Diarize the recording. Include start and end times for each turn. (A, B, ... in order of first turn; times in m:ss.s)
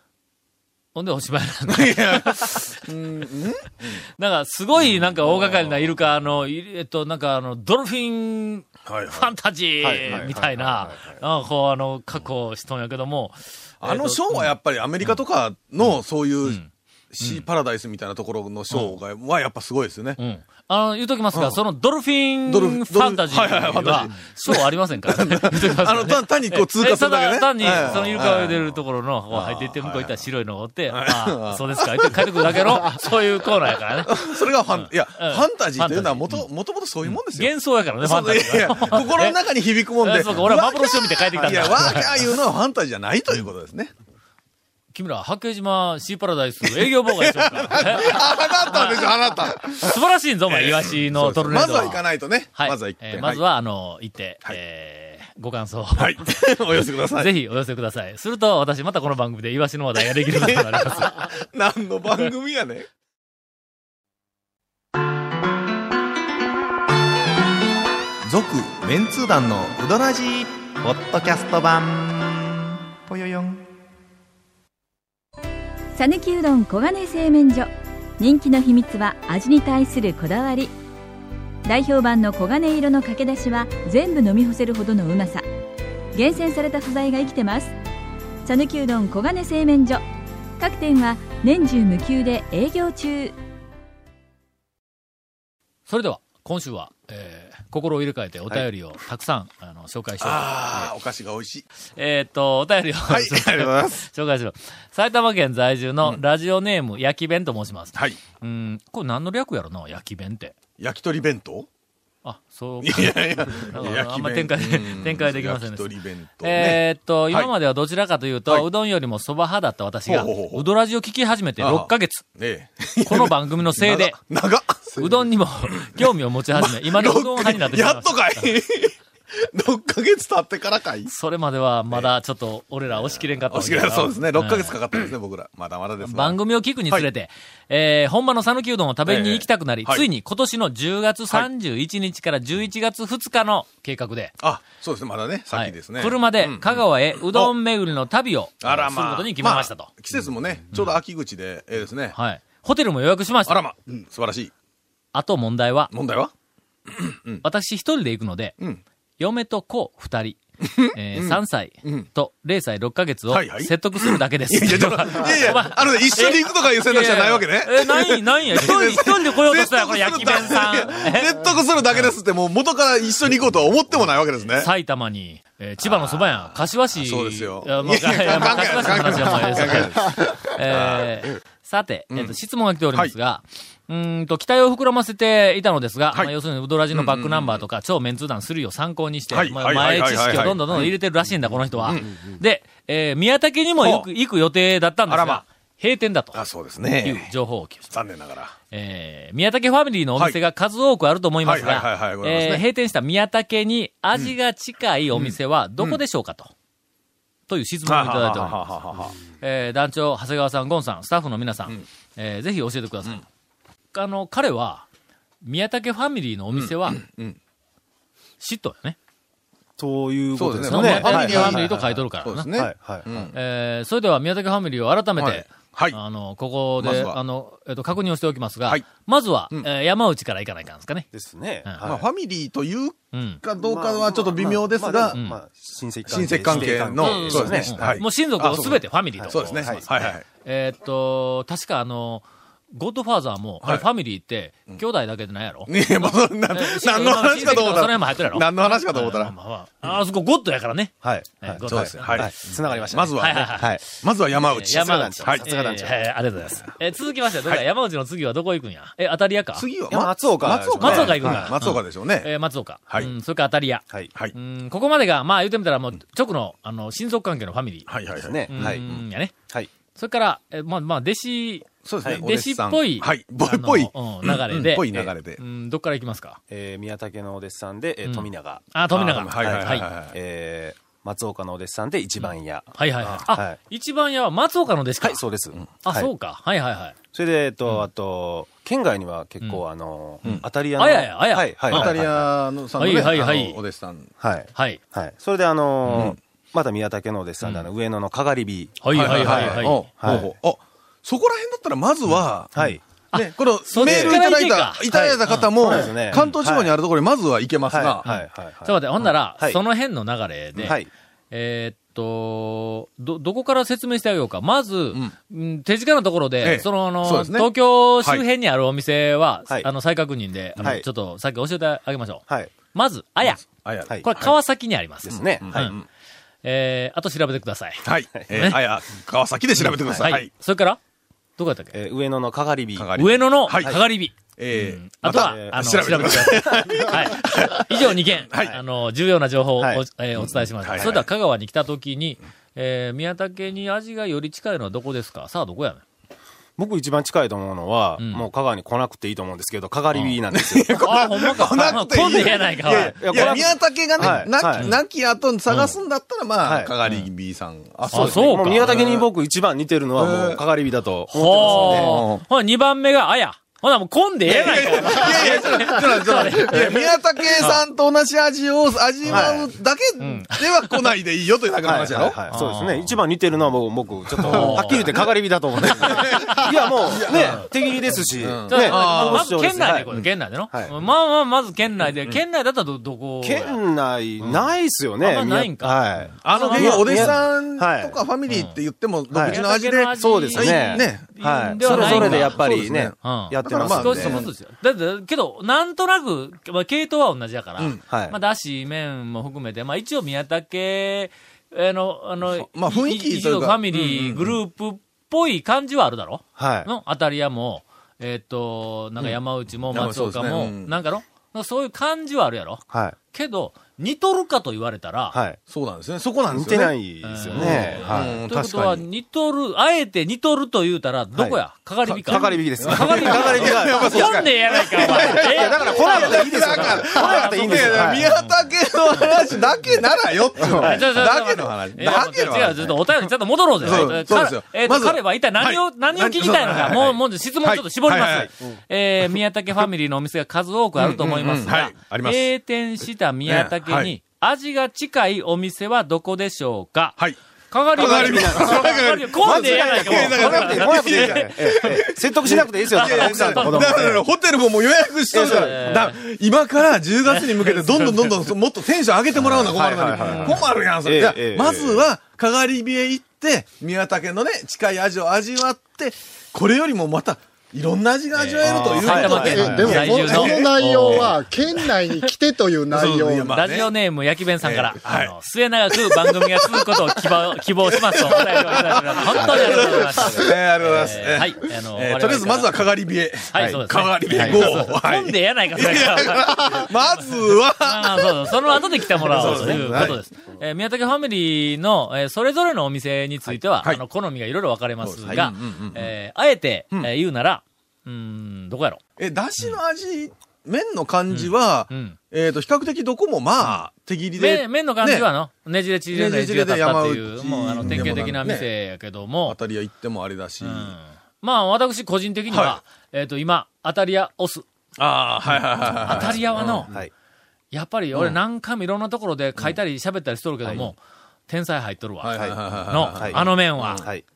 0:00.9-0:02.8 A
0:01.7-0:04.0 B
0:04.2-0:15.2 A
0:04.8-0:06.0 B
0:08.8-0:09.3 B
0:09.8-0:11.2 C
0:13.8-0:16.6 B
0:17.1-0:20.2 B
0:17.2-0:17.4 A
0:18.7-0:19.0 A
0:20.2-0:36.5 A
0:21.3-0:21.6 B
0:22.5-0:28.8 B
0:29.3-0:30.2 B
0:30.9-0:33.0 B
0:34.0-0:43.9 B
0:37.0-0:39.4 A
0:40.0-0:42.2 A
0:41.4-0:42.0 C
0:44.9-0:49.0 A
0:46.6-0:53.4 B
0:49.8-0:56.3 A
0:56.0-0:57.3 B
0:57.1-1:01.3 A
1:00.3-1:02.8 B
1:08.3-1:13.6 D
1:15.9-1:20.7 E
1:21.6-1:25.4 E
1:26.1-1:27.7 E
1:28.4-1:30.0 E
1:30.6-1:33.3 E
1:35.9-1:40.6 A
1:40.2-1:41.6 B
1:42.0-1:50.5 A
1:43.1-1:44.0 B
1:47.9-1:48.2 B
1:50.8-1:51.7 B
1:52.2-2:02.2 A
1:52.8-1:57.5 B
2:00.1-2:00.6 B
2:01.6-2:08.9 B
2:03.0-2:04.2 A
2:05.0-2:08.5 A
2:09.4-2:11.1 B
2:11.1-2:14.8 A
2:13.5-2:16.4 B
2:16.0-2:24.3 A
2:19.0-2:20.1 B
2:24.4-2:27.5 B
2:25.5-2:29.9 A
2:28.6-2:32.2 B
2:30.7-2:31.0 A
2:32.1-2:33.6 A
2:33.4-2:34.5 B
2:35.1-2:35.9 A
2:35.9-2:36.3 B
2:36.9-2:37.4 B
2:37.4-2:38.6 A
2:39.2-2:52.1 A
2:40.6-2:42.1 B
2:43.3-2:54.7 B
2:54.6-3:16.4 A
2:55.8-3:01.2 B
3:02.1-3:02.4 B
3:06.9-3:07.6 B
3:09.3-3:10.9 B
3:11.8-3:12.1 B
3:13.8-3:14.1 B
3:15.1-3:15.4 B
3:16.3-3:17.3 B
3:17.0-3:17.9 A
3:17.9-3:18.5 B
3:18.7-3:26.5 A
3:21.4-3:22.6 B
3:25.1-3:26.0 B
3:27.5-3:28.8 A
3:27.8-3:29.1 B
3:29.4-3:33.2 A
3:33.9-3:34.8 A
3:35.4-3:37.0 A
3:36.5-3:37.4 B
3:38.4-3:39.0 A
3:39.8-3:42.0 C
3:40.3-3:43.3 B
3:40.6-3:42.5 A
3:42.6-3:43.3 C
3:43.3-3:51.1 A
3:45.2-3:46.0 B
3:46.8-3:47.2 B
3:51.1-3:52.0 C
3:51.8-3:55.2 B
3:53.1-3:53.4 A
3:53.6-3:58.0 C
3:56.1-4:00.2 B
3:56.5-4:13.7 A
3:59.2-4:00.1 C
4:05.6-4:09.3 B
4:11.0-4:16.1 C
4:11.6-4:15.4 B
4:14.5-4:19.7 A
4:19.5-4:22.3 B
4:19.9-4:21.4 C
4:20.8-4:27.9 A
4:27.9-4:29.0 B
4:28.2-4:28.8 C
4:28.5-4:29.3 A
4:29.9-4:36.4 A
4:31.8-4:35.4 B
4:36.5-4:38.6 C
4:38.0-4:39.9 A
4:38.9-4:40.2 B
4:39.4-4:43.6 C
4:42.2-4:45.2 A
4:45.0-4:46.1 C
4:45.8-4:46.9 A
4:47.1-4:52.3 C
4:50.8-4:51.9 A
4:51.7-4:54.1 B
4:52.8-4:53.6 A
4:54.2-5:00.3 C
4:54.5-4:54.8 A
4:55.9-4:56.2 B
4:58.8-5:00.2 A
4:58.9-5:02.6 B
5:02.5-5:02.8 C
5:03.1-5:06.4 A
5:03.1-5:08.0 B
5:03.8-5:04.2 C
5:04.9-5:06.7 C
5:07.7-5:09.6 C
5:08.0-5:10.8 A
5:11.3-5:23.5 A
5:16.4-5:18.2 B
5:20.6-5:20.8 C
5:23.3-5:24.3 B
5:24.0-5:25.7 A
5:25.0-5:25.8 C
5:25.4-5:25.8 B
5:26.4-5:28.6 A
5:27.8-5:30.3 B
5:30.0-5:30.8 A
5:31.4-5:31.7 A
5:31.7-5:32.9 C
5:32.8-5:38.6 B
5:33.0-5:45.8 A
5:35.2-5:36.9 C
5:40.2-5:41.0 B
5:40.7-5:41.0 C
5:46.6-5:54.7 C
5:48.0-5:48.3 A
5:50.3-5:59.1 B
5:50.8-5:53.4 A
5:56.4-5:56.7 C
5:57.9-5:58.8 A
5:57.9-6:02.0 C
6:00.0-6:00.4 B
6:01.1-6:07.6 A
6:01.3-6:02.2 B
6:04.2-6:12.2 B
6:09.1-6:09.5 C
6:10.0-6:10.9 A
6:11.6-6:19.9 C
6:12.3-6:12.9 A
6:14.2-6:14.9 B
6:14.3-6:15.0 A
6:15.6-6:16.5 A
6:15.6-6:20.0 B
6:18.5-6:23.6 A
6:23.2-6:28.0 C
6:25.0-6:27.2 A
6:26.2-6:34.3 B
6:28.3-6:28.6 A
6:29.1-6:29.4 C
6:29.2-6:32.5 A
6:30.0-6:34.2 C
6:33.0-6:55.2 A
6:37.9-6:38.2 C
6:42.2-6:44.4 B
6:46.4-6:46.7 C
6:49.7-6:50.8 B
6:52.7-6:53.0 C
6:55.1-6:55.4 C
6:55.5-6:56.7 B
6:56.3-6:58.3 C
6:57.0-7:08.3 A
6:57.3-6:58.8 B
7:01.1-7:01.4 C
7:01.9-7:13.0 B
7:02.0-7:08.1 C
7:10.4-7:10.8 C
7:10.6-7:27.0 A
7:13.6-7:18.3 B
7:20.8-7:22.3 B
7:23.2-7:23.9 B
7:27.5-7:31.8 A
7:27.7-7:51.2 B
7:27.8-7:34.0 C
7:32.7-7:33.9 A
7:35.1-7:35.9 C
7:35.2-7:36.0 A
7:37.0-7:38.2 A
7:39.1-7:41.9 C
7:40.0-7:40.5 A
7:48.2-7:51.1 A
7:48.4-7:49.8 C
7:49.3-7:53.3 F
7:52.7-7:53.7 B
7:53.3-8:02.6 A
7:54.4-7:55.1 B
7:55.7-8:08.3 B
8:03.3-8:06.7 A
8:03.3-8:03.6 C
8:04.1-8:04.6 C
8:07.6-8:18.8 A
8:08.9-8:10.0 B
8:09.1-8:10.0 C
8:14.8-8:15.9 B
8:19.0-8:25.1 B
8:21.1-8:22.0 A
8:24.2-8:29.4 A
8:25.9-8:28.5 B
8:29.2-8:30.7 B
8:30.4-8:34.4 A
8:32.3-8:32.6 B
8:34.8-8:36.7 B
8:35.8-8:36.7 A
8:37.5-8:43.8 A
8:40.4-8:40.7 C
8:42.0-8:43.9 B
8:42.9-8:44.0 C